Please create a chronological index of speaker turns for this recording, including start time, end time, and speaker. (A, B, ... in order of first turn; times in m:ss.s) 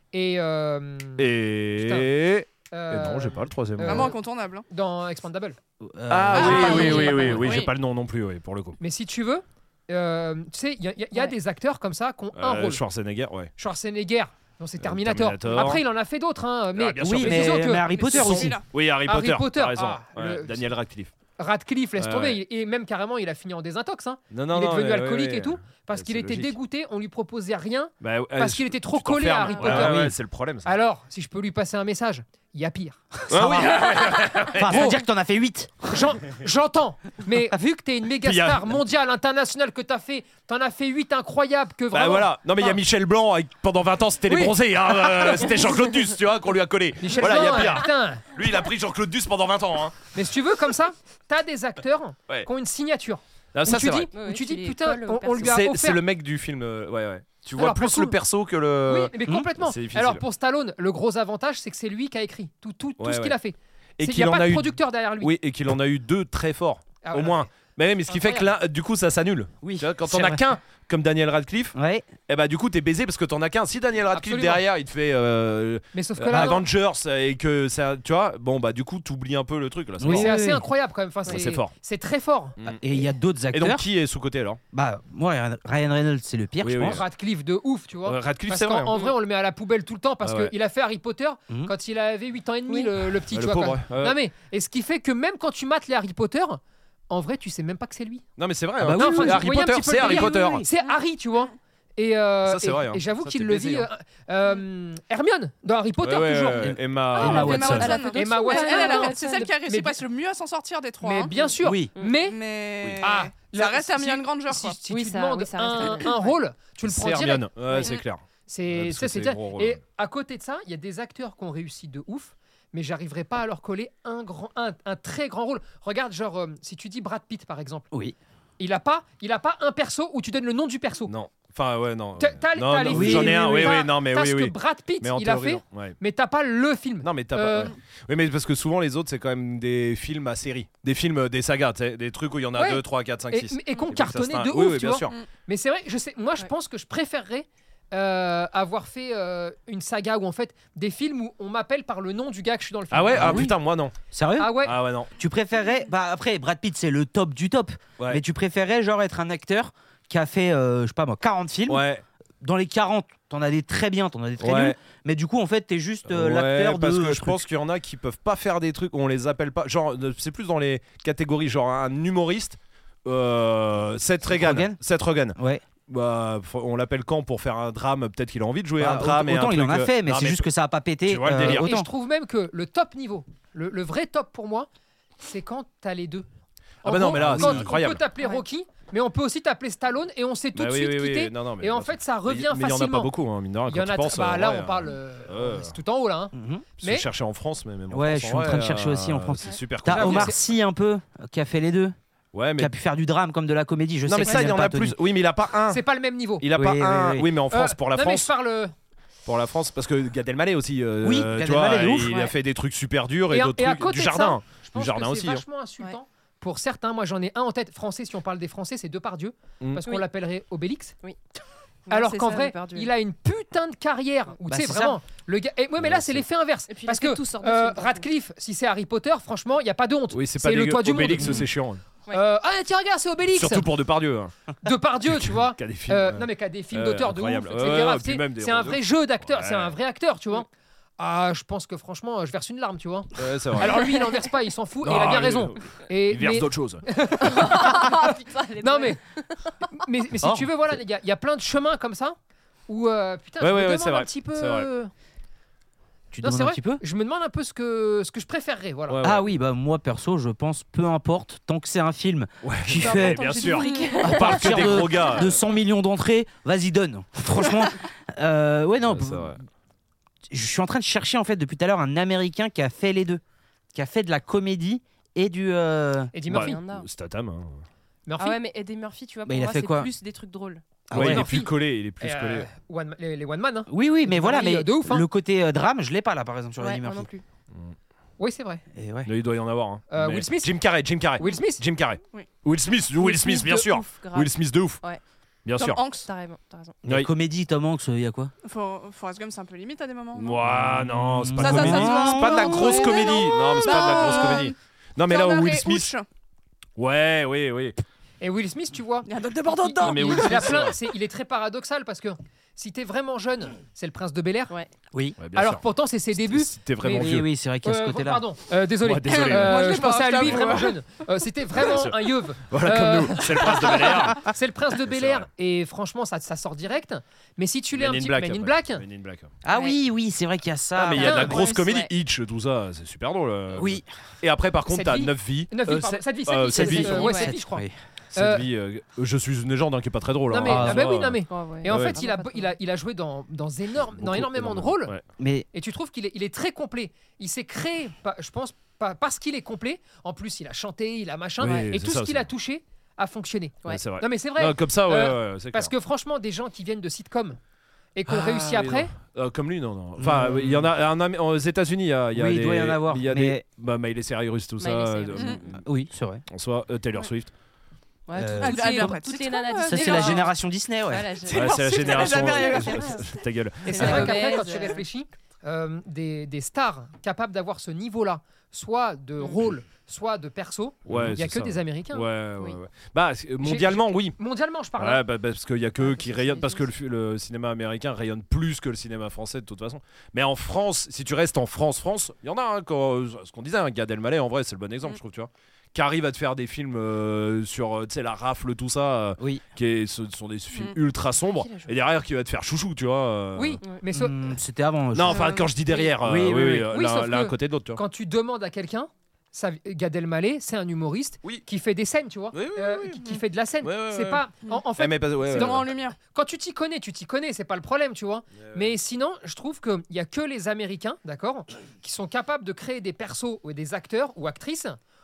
0:00.1-0:01.2 A
0:01.2-0:04.1 B
0:01.8-0:02.1 A
0:02.7-0:05.6 A
0:03.8-0:04.6 C
0:05.8-0:07.6 D
0:06.1-0:08.8 B
0:06.3-0:07.7 C
0:06.8-0:07.3 E
0:08.8-0:12.8 A
0:12.3-0:13.5 B
0:13.6-0:17.9 A
0:14.8-0:15.8 B
0:16.7-0:21.1 B
0:17.0-0:18.6 D
0:17.9-0:18.6 C
0:19.1-0:20.7 A
0:21.4-0:30.1 A
0:22.0-0:22.4 B
0:24.3-0:26.6 B
0:28.0-0:30.7 B
0:29.5-0:29.7 E
0:29.7-0:30.1 D
0:30.6-0:35.0 A
0:33.3-0:34.9 B
0:33.4-0:33.8 D
0:34.5-0:36.0 D
0:35.9-0:42.8 A
0:38.2-0:38.7 B
0:41.9-0:50.1 B
0:44.3-0:44.5 A
0:47.0-0:48.2 A
0:50.1-0:56.0 A
0:53.5-0:54.1 B
0:54.1-0:55.6 E
0:55.4-1:00.2 B
0:57.6-0:58.2 A
0:58.9-1:05.3 A
1:03.0-1:03.4 B
1:04.0-1:11.8 B
1:07.0-1:07.5 A
1:08.1-1:08.5 A
1:09.6-1:10.4 D
1:11.8-1:12.1 D
1:12.3-1:20.3 B
1:14.1-1:14.6 A
1:15.9-1:16.6 A
1:16.3-1:16.6 D
1:20.0-1:20.6 D
1:20.1-1:22.6 A
1:21.3-1:21.7 B
1:22.6-1:22.9 B
1:22.8-1:23.8 D
1:23.5-1:24.6 B
1:24.7-1:27.0 D
1:26.6-1:27.0 B
1:26.8-1:38.2 A
1:28.1-1:28.9 B
1:30.2-1:30.5 B
1:33.3-1:34.2 B
1:38.4-1:40.6 B
1:38.8-1:40.6 D
1:39.0-1:46.7 A
1:42.5-1:43.9 B
1:46.0-1:47.9 B
1:46.6-1:48.0 D
1:47.2-1:51.3 C
1:47.2-1:49.4 E
1:48.1-1:50.0 A
1:51.0-1:52.4 A
1:51.6-1:51.9 D
1:52.2-1:54.8 C
1:53.0-1:57.9 A
1:54.9-1:56.3 E
1:56.8-1:59.8 B
1:58.5-2:07.9 A
2:08.6-2:11.1 A
2:11.1-2:16.0 B
2:12.2-2:17.7 A
2:12.9-2:13.8 D
2:17.0-2:25.2 B
2:22.6-2:33.5 A
2:32.9-2:33.9 B
2:33.1-2:33.5 D
2:34.1-2:41.8 D
2:34.4-2:34.8 A
2:34.6-2:35.1 B
2:41.7-2:42.0 B
2:42.4-2:47.4 D
2:44.4-2:44.8 B
2:46.1-2:55.4 B
2:54.3-2:54.8 D
2:55.4-2:55.6 D
2:55.9-3:00.5 B
2:58.8-3:01.9 D
3:01.1-3:01.7 B
3:01.4-3:06.3 A
3:06.8-3:13.1 A
3:06.8-3:08.0 B
3:07.2-3:07.7 D
3:10.6-3:15.7 B
3:13.7-3:17.1 A
3:16.3-3:16.7 D
3:16.8-3:20.3 B
3:17.9-3:22.0 D
3:19.9-3:20.4 A
3:22.3-3:22.7 B
3:22.6-3:25.0 D
3:24.1-3:25.8 B
3:25.7-3:26.4 A
3:26.4-3:28.3 B
3:26.5-3:27.3 D
3:27.5-3:28.7 A
3:29.3-3:35.4 B
3:31.0-3:32.3 D
3:33.3-3:41.0 A
3:41.9-3:42.9 E
3:41.9-3:51.5 A
3:44.5-3:45.0 D
3:45.8-3:46.2 B
3:46.7-3:48.1 E
3:50.1-3:51.8 B
3:52.1-3:53.7 A
3:53.3-3:54.3 B
3:54.6-4:00.5 A
3:55.1-3:59.7 B
4:01.0-4:09.0 A
4:03.2-4:03.8 B
4:04.8-4:06.9 B
4:07.2-4:09.5 E
4:09.7-4:12.2 A
4:10.2-4:10.5 D
4:12.7-4:14.9 A
4:13.4-4:14.7 B
4:16.1-4:16.8 D
4:16.2-4:19.0 A
4:18.9-4:19.3 B
4:19.0-4:23.4 D
4:22.4-4:25.4 B
4:22.8-4:25.2 E
4:24.0-4:29.4 D
4:28.9-4:29.4 B
4:30.3-4:33.2 D
4:33.7-4:36.1 D
4:36.1-4:36.6 A
4:36.3-4:37.6 B
4:36.3-4:36.9 E
4:38.1-4:38.4 A
4:38.2-4:40.8 E
4:39.3-4:39.9 D
4:40.9-4:41.3 D
4:40.9-4:42.5 B
4:40.9-4:45.1 A
4:43.7-4:47.1 D
4:46.6-4:47.2 E
4:48.2-4:48.6 A
4:48.8-4:49.1 D
4:49.1-4:54.8 B
4:49.9-4:50.6 A
4:51.2-4:51.6 A
4:53.0-4:55.0 E
4:55.4-4:55.8 B
4:55.6-4:56.1 C
4:56.0-4:56.8 E
4:56.8-4:57.1 B
4:56.8-4:58.3 D
4:58.4-5:00.4 C
5:00.2-5:05.9 B
5:00.5-5:02.9 D
5:01.4-5:04.6 C
5:05.1-5:06.1 C
5:06.8-5:07.8 B
5:08.2-5:14.6 A
5:09.1-5:10.6 C
5:09.8-5:10.8 B
5:15.2-5:15.6 B
5:15.3-5:28.8 A
5:16.1-5:17.3 B
5:16.9-5:18.2 D
5:18.8-5:20.6 B
5:19.1-5:20.7 C
5:21.6-5:24.3 B
5:24.8-5:25.3 B
5:27.7-5:29.3 B
5:29.4-5:31.5 D
5:29.5-5:29.8 E
5:30.8-5:37.1 B
5:31.0-5:31.4 A
5:31.0-5:31.9 E
5:33.6-5:33.9 D
5:34.7-5:38.4 A
5:36.5-5:37.7 D
5:36.9-5:37.3 E
5:38.2-5:42.0 B
5:40.3-5:45.0 A
5:40.4-5:40.9 D
5:41.3-5:42.6 E
5:43.9-5:45.0 B
5:45.2-5:45.5 D
5:45.5-5:57.4 A
5:51.4-5:52.3 B
5:53.7-5:55.7 B
5:58.0-5:58.9 A
5:58.1-6:05.6 B
6:00.0-6:00.7 D
6:02.1-6:03.4 D
6:04.6-6:05.4 E
6:05.6-6:06.2 D
6:06.3-6:07.3 B
6:08.1-6:10.3 E
6:08.2-6:09.0 D
6:08.4-6:10.3 C
6:09.6-6:11.1 D
6:10.9-6:14.8 E
6:11.2-6:13.2 C
6:11.3-6:14.3 B
6:13.7-6:22.1 A
6:20.9-6:24.2 B
6:23.4-6:25.0 A
6:24.8-6:43.6 B
6:25.8-6:26.6 E
6:39.2-6:39.4 D
6:41.3-6:41.7 E
6:43.4-6:44.2 A
6:43.9-6:45.4 D
6:44.9-6:47.8 B
6:45.1-6:45.5 C
6:46.0-6:46.7 D
6:46.7-7:04.8 A
6:52.3-6:53.0 B
6:53.6-6:54.2 B
6:54.8-6:55.7 B
6:55.3-6:56.0 C
6:58.4-6:58.7 B